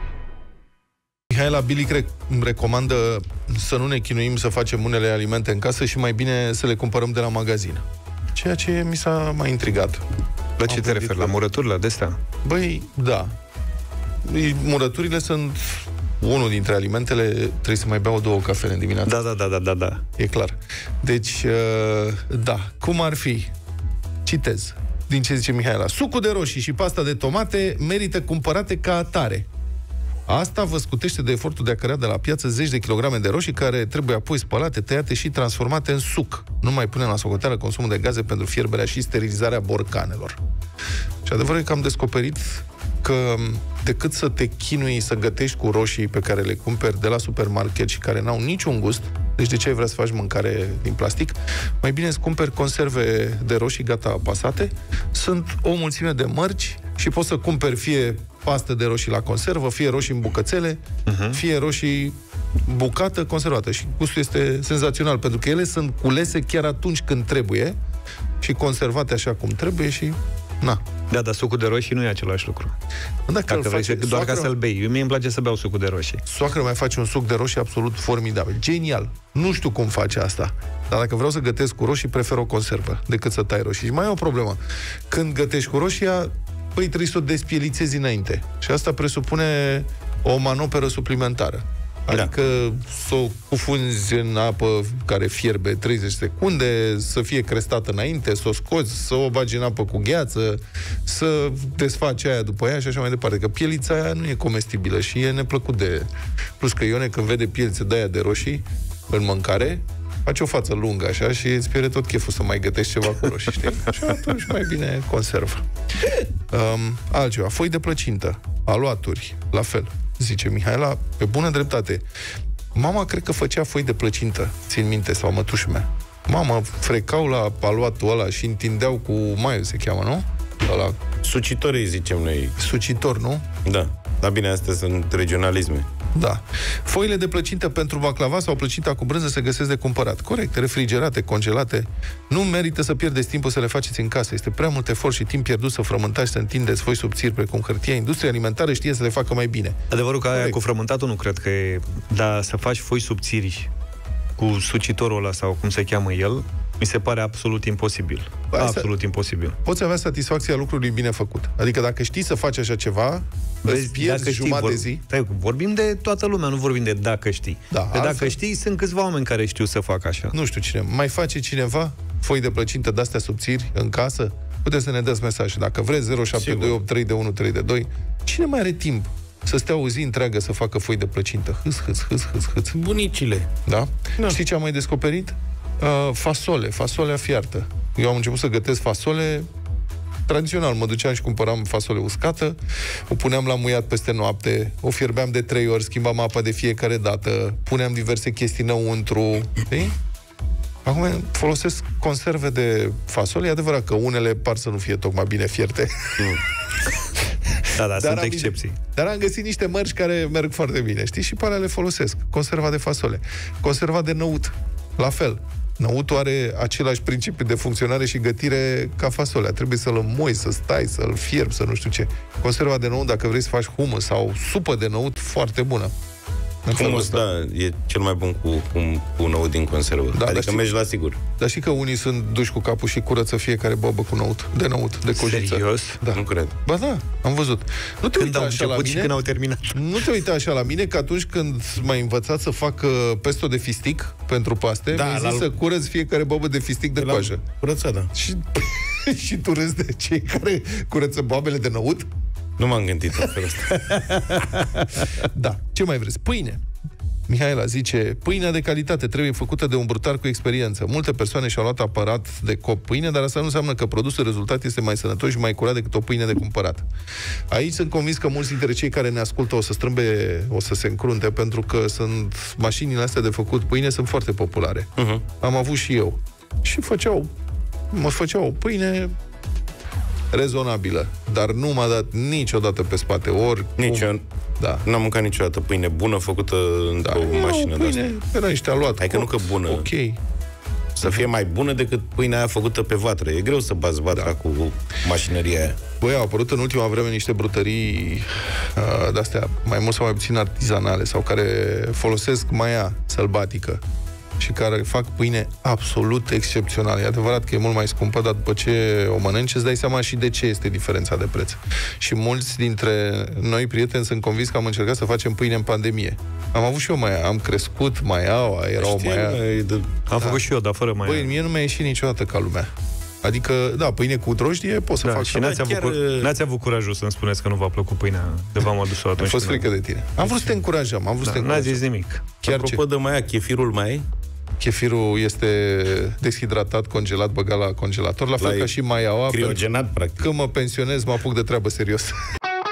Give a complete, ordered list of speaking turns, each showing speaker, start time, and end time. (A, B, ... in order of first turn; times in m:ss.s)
0:01.3-0:10.0 A
0:10.6-0:12.2 B
0:10.6-0:11.3 A
0:12.4-0:13.3 A
0:14.2-0:19.2 A
0:19.0-0:20.0 B
0:20.2-0:23.5 A
0:24.2-0:29.5 A
0:30.3-0:40.4 A
0:41.2-1:00.8 A
1:01.1-1:01.4 B
1:01.3-1:07.8 A
1:08.4-1:10.8 A
1:11.1-1:12.7 B
1:13.3-1:14.5 A
1:13.5-1:16.2 B
1:16.2-1:24.6 A
1:25.1-2:02.0 A
2:02.7-2:11.0 A
2:11.2-2:12.5 C
2:12.6-2:13.5 A
2:13.6-2:15.9 C
2:16.1-2:30.6 A
2:29.9-2:33.7 B
2:34.4-2:39.6 B
2:38.5-2:38.9 A
2:39.6-2:45.0 A
2:43.6-2:50.3 B
2:47.7-2:48.4 A
2:50.3-3:02.8 A
2:56.3-2:56.8 C
3:02.7-3:03.5 C
3:03.6-3:09.5 A
3:10.3-3:12.6 A
3:13.1-3:20.0 A
3:20.8-3:26.4 A
3:27.7-3:28.8 B
3:27.8-3:45.9 A
3:46.6-3:47.2 A
3:46.7-3:51.2 C
3:50.1-3:50.7 A
3:51.4-3:59.1 A
3:55.1-3:56.0 B
3:56.1-3:56.5 C
3:58.1-3:59.8 B
3:59.7-4:07.4 A
4:04.9-4:05.5 C
4:07.0-4:08.1 C
4:08.1-4:12.1 A
4:12.6-4:13.8 C
4:13.2-4:16.6 A
4:17.3-4:26.8 A
4:27.5-4:34.9 A
4:35.0-4:35.2 C
4:35.4-4:37.3 A
4:37.9-4:39.1 A
4:40.3-4:44.8 A
4:43.8-4:44.2 C
4:44.8-4:48.1 C
4:47.0-4:50.2 A
4:49.0-4:49.9 C
4:51.0-4:55.8 C
4:56.0-5:03.8 A
5:04.4-5:19.4 A
5:18.8-5:19.9 C
5:20.1-5:21.4 B
5:20.2-5:20.4 A
5:21.0-5:22.7 A
5:23.2-5:25.5 A
5:25.0-5:29.7 B
5:25.4-5:26.3 C
5:29.2-5:31.8 A
5:30.2-5:30.6 B
5:31.2-5:32.8 B
5:32.4-5:34.0 C
5:34.6-5:39.6 A
5:38.4-5:38.7 C
5:39.3-5:40.3 C
5:40.2-5:42.1 A